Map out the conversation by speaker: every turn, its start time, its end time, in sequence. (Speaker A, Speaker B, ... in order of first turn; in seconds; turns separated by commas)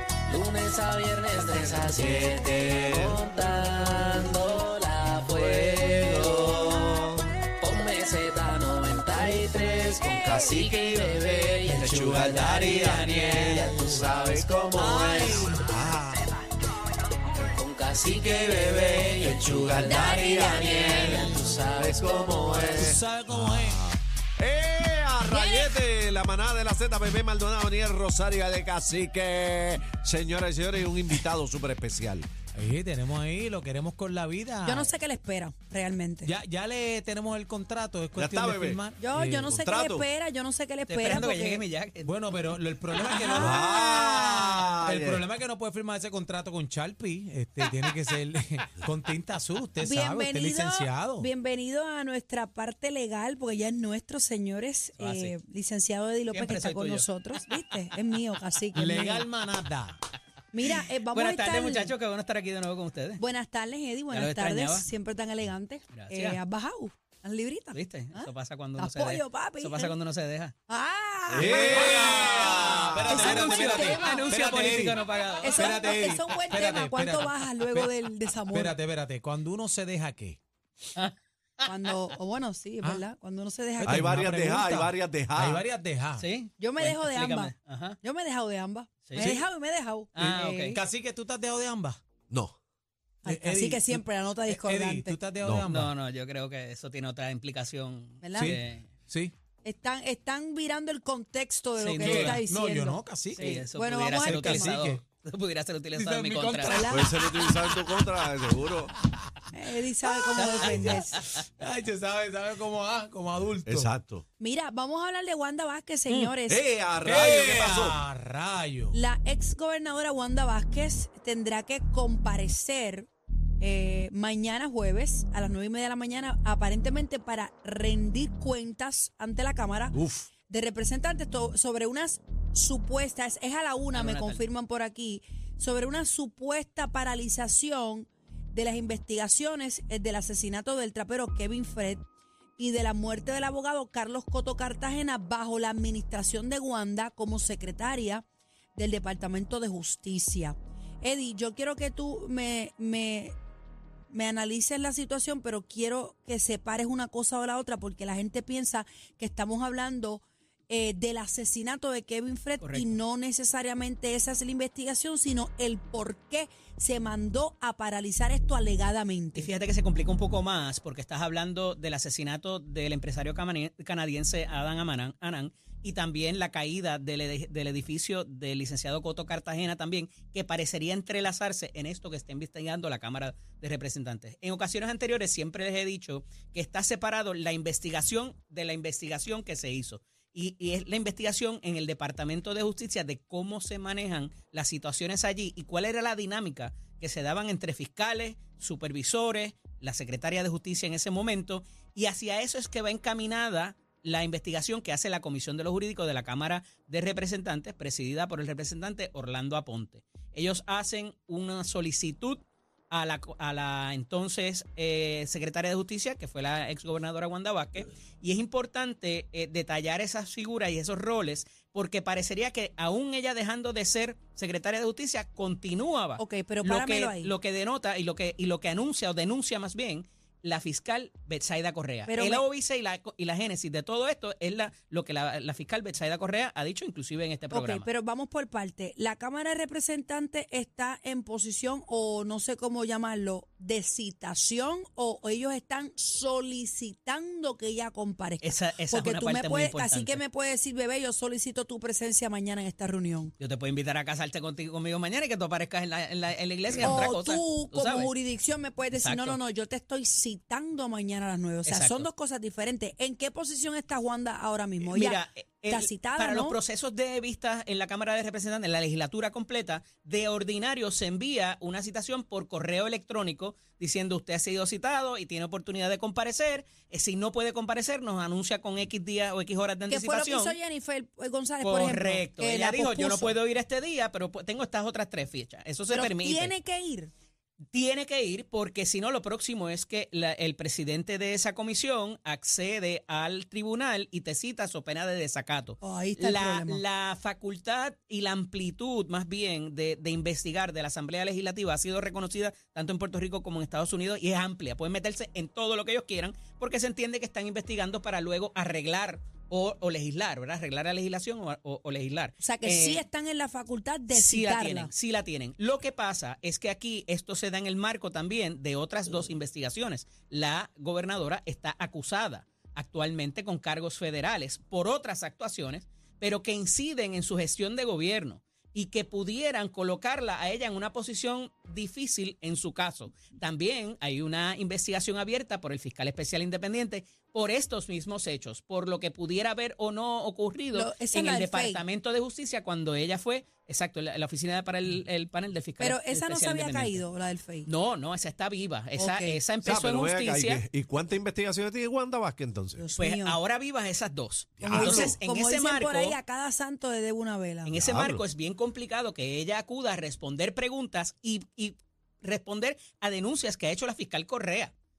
Speaker A: 0.3-6.8, Speaker B: 1.7-3.2, Speaker B: 3.9-4.1, Speaker B: 5.4-7.1, Speaker A: 7.5-15.5, Speaker C: 10.0-10.6, Speaker B: 10.1-16.2, Speaker D: 14.8-15.7, Speaker A: 17.3-22.9, Speaker B: 18.1-32.3, Speaker C: 19.8-21.2, Speaker D: 22.8-23.9, Speaker C: 25.3-25.7, Speaker D: 32.5-34.9, Speaker C: 34.6-36.3, Speaker D: 36.2-39.6, Speaker B: 38.1-38.8, Speaker C: 39.0-41.6, Speaker B: 39.5-40.1, Speaker E: 40.9-43.1, Speaker D: 42.0-51.3, Speaker C: 43.0-44.5, Speaker B: 43.3-45.2, Speaker C: 49.8-59.3, Speaker E: 55.0-55.3, Speaker E: 56.3-57.8, Speaker D: 58.7-60.0, Speaker C: 60.5-61.9, Speaker E: 61.1-63.2, Speaker C: 63.2-69.9, Speaker E: 64.1-64.9, Speaker E: 65.9-66.4, Speaker E: 67.7-70.5, Speaker C: 70.7-72.5, Speaker B: 71.3-73.2, Speaker D: 71.3-77.9, Speaker E: 71.6-72.2, Speaker C: 73.1-74.3, Speaker E: 73.1-76.5, Speaker C: 75.4-78.7, Speaker D: 78.5-80.4, Speaker E: 80.9-81.9, Speaker C: 81.6-84.7, Speaker D: 83.8-86.3, Speaker B: 83.8-85.6, Speaker E: 86.2-88.0, Speaker C: 86.6-90.8, Speaker D: 89.1-89.4, Speaker E: 90.1-90.8, Speaker D: 90.2-92.0, Speaker B: 92.3-92.5, Speaker C: 93.2-95.2, Speaker D: 93.2-95.9, Speaker E: 95.7-98.9, Speaker C: 98.2-98.5, Speaker D: 98.4-99.3, Speaker C: 99.6-104.8, Speaker E: 101.8-102.4, Speaker D: 102.0-103.6, Speaker E: 103.3-106.9, Speaker D: 104.2-105.0, Speaker D: 105.9-108.0, Speaker C: 106.7-107.3, Speaker B: 106.9-108.9, Speaker C: 109.5-111.2, Speaker D: 110.3-110.8, Speaker E: 110.4-111.4, Speaker D: 111.6-113.9, Speaker B: 113.7-114.2, Speaker C: 114.4-116.6, Speaker B: 116.5-118.0, Speaker D: 117.0-119.0, Speaker C: 118.9-123.1, Speaker C: 123.6-142.0, Speaker B: 129.9-130.3, Speaker E: 133.9-134.4, Speaker C: 142.6-153.3, Speaker C: 154.1-169.5, Speaker E: 162.6-163.0, Speaker E: 169.3-237.9, Speaker C: 226.2-227.3, Speaker C: 232.1-232.4, Speaker C: 237.5-253.3, Speaker E: 248.4-250.2, Speaker E: 253.4-258.1, Speaker C: 256.8-266.6, Speaker E: 258.9-259.4, Speaker E: 261.6-262.1, Speaker E: 264.8-280.6, Speaker C: 279.9-283.4, Speaker E: 281.6-286.5, Speaker C: 285.9-287.1, Speaker E: 287.7-313.1, Speaker C: 295.8-296.8, Speaker C: 312.4-314.9, Speaker E: 314.1-347.0, Speaker C: 340.7-341.8, Speaker C: 345.8-347.7, Speaker E: 347.6-350.6, Speaker C: 349.0-349.4, Speaker B: 349.6-352.8, Speaker C: 352.8-353.4, Speaker E: 353.0-356.2, Speaker B: 354.6-355.2, Speaker C: 354.6-357.7, Speaker E: 357.6-364.7, Speaker B: 357.7-358.2